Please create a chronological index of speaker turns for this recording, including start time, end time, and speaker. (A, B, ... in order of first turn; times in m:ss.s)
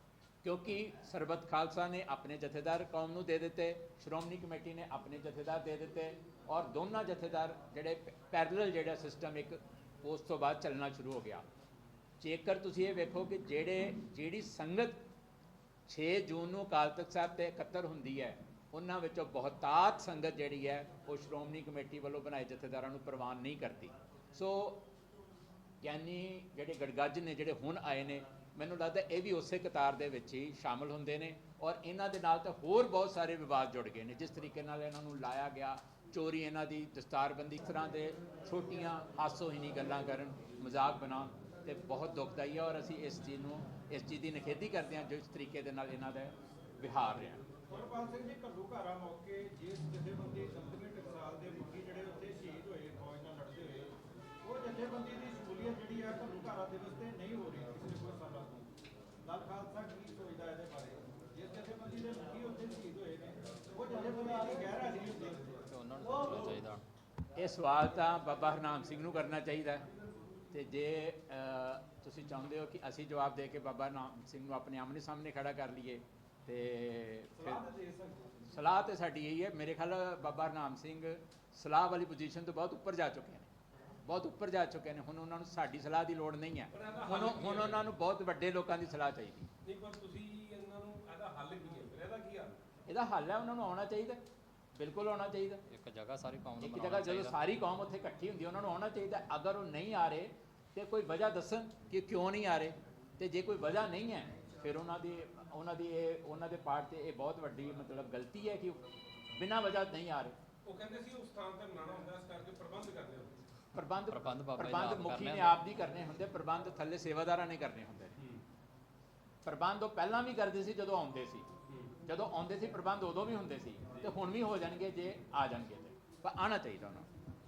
0:00.4-0:11.4 A
0:12.2-0:15.0 A
0:15.9-0:24.8 A
0:25.8-0:47.4 A
0:47.7-1:05.5 B
1:05.7-1:06.8 C
1:07.4-1:09.9 A
1:10.5-1:17.7 A
1:17.4-1:18.4 B
1:18.5-1:23.5 A
1:24.0-1:29.5 A
1:26.7-1:27.8 D
1:29.6-1:32.6 D
1:32.9-1:34.2 A
1:34.8-1:35.6 A
1:35.7-1:37.4 C
1:36.6-1:48.8 A
1:49.3-1:50.4 A
1:50.6-1:53.3 D
1:53.7-1:58.2 A
1:54.1-1:55.6 C
1:59.4-2:01.5 A
2:01.7-2:01.9 D
2:02.0-2:07.1 A